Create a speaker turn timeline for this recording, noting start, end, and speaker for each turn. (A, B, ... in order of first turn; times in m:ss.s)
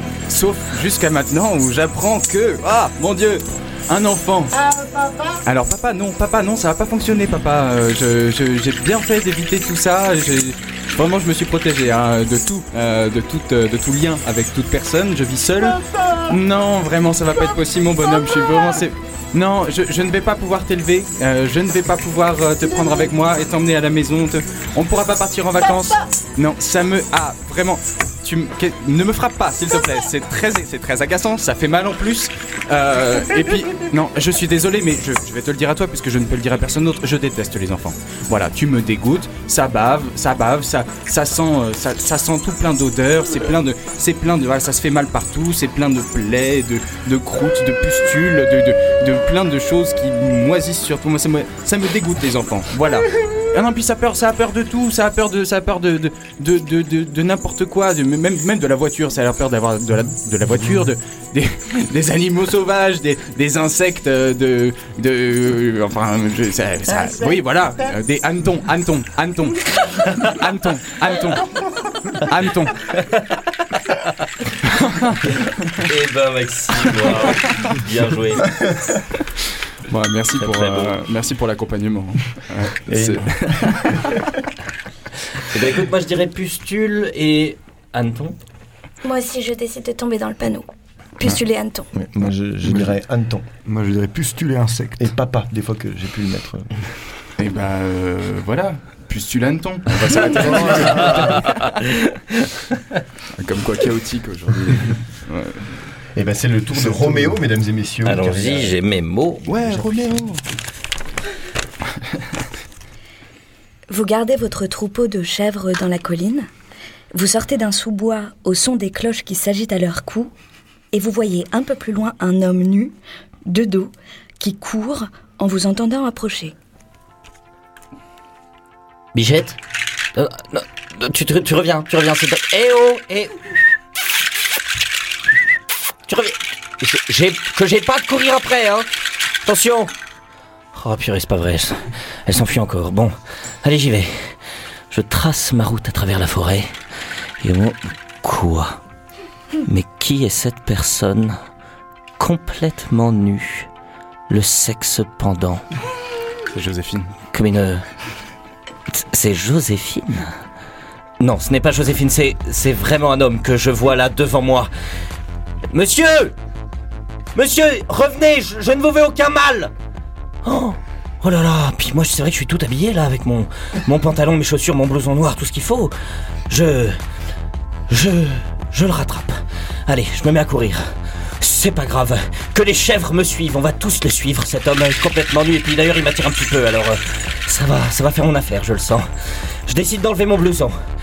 0:00.3-0:04.6 A
0:04.8-0:05.4 B
0:05.4-1:11.5 A
1:12.1-1:12.8 A
1:15.7-1:18.7 C
1:19.9-1:24.1 A
1:20.4-1:20.9 C
1:22.9-1:24.4 D
1:25.4-1:28.4 C
1:29.0-1:31.9 E
1:31.9-1:33.5 D
1:33.6-1:35.1 B
1:35.0-1:36.7 D
1:37.4-1:41.6 A
1:40.3-1:40.8 B
1:40.7-1:42.5 C
1:43.4-1:45.6 A
1:46.2-1:48.8 D
1:48.0-1:49.9 C
1:49.5-1:50.4 A
1:53.9-1:56.5 E
1:57.1-2:00.3 E
2:00.9-2:03.0 E
2:03.5-2:06.6 E
2:09.1-2:09.6 C
2:10.1-2:13.4 C
2:16.1-2:18.9 C
2:19.4-2:19.9 C
2:20.7-2:24.4 C
2:24.9-2:26.7 C
2:27.4-2:28.8 C
2:29.6-2:31.4 C
2:32.2-2:33.7 C
2:34.3-2:35.6 C
2:36.5-2:37.1 A
2:37.3-2:37.8 C
2:38.9-2:40.4 C
2:41.2-2:44.7 C
2:45.7-2:46.4 C
2:47.4-2:49.7 C
2:50.4-2:55.9 C
2:56.5-2:57.0 C
2:57.9-3:09.1 C
3:09.7-3:10.8 C